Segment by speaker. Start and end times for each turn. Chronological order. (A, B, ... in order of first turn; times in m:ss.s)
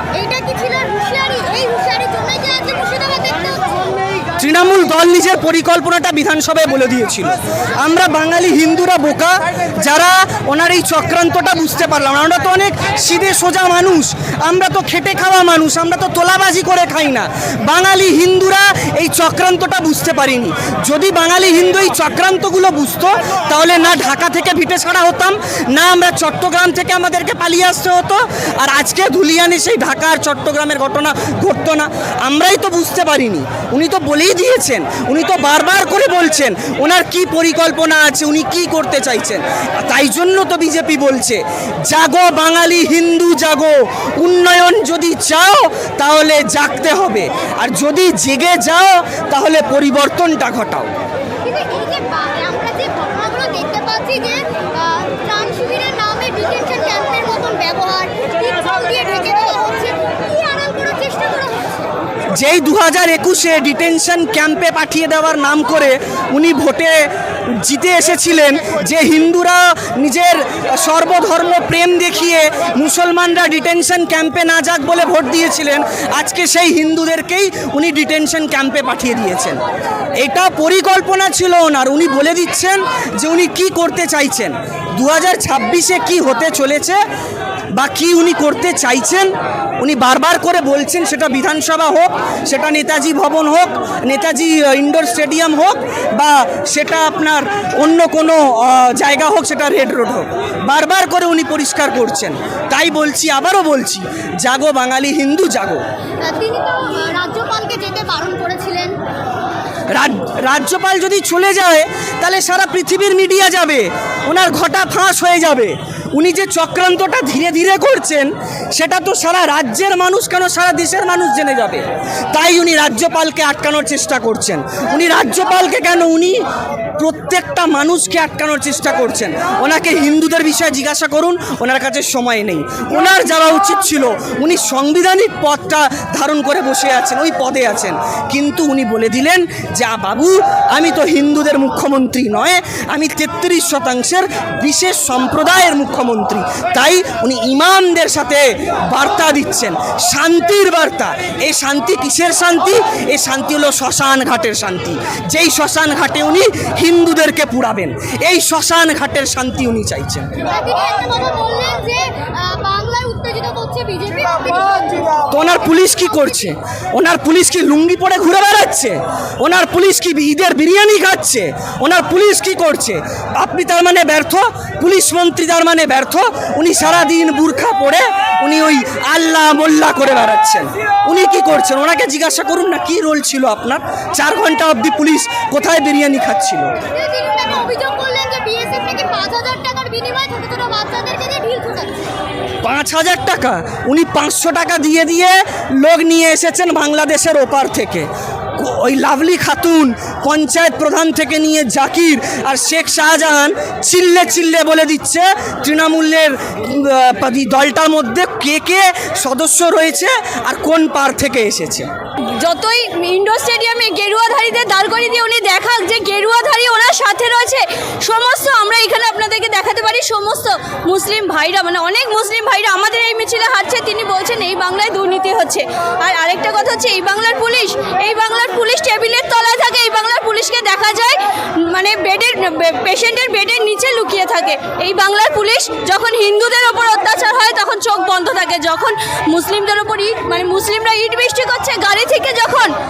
0:00.1-0:04.1 A
0:04.4-0:50.9 B
0:51.4-1:01.7 A
1:02.3-1:19.6 B
1:20.2-1:27.0 B
1:27.7-1:45.8 B
1:46.2-1:49.0 A
1:49.9-2:06.4 B
2:07.0-2:40.4 B
2:40.4-2:45.2 A
2:45.3-3:06.7 B
3:06.9-3:11.9 A
3:12.6-3:31.9 B
3:32.3-4:02.7 C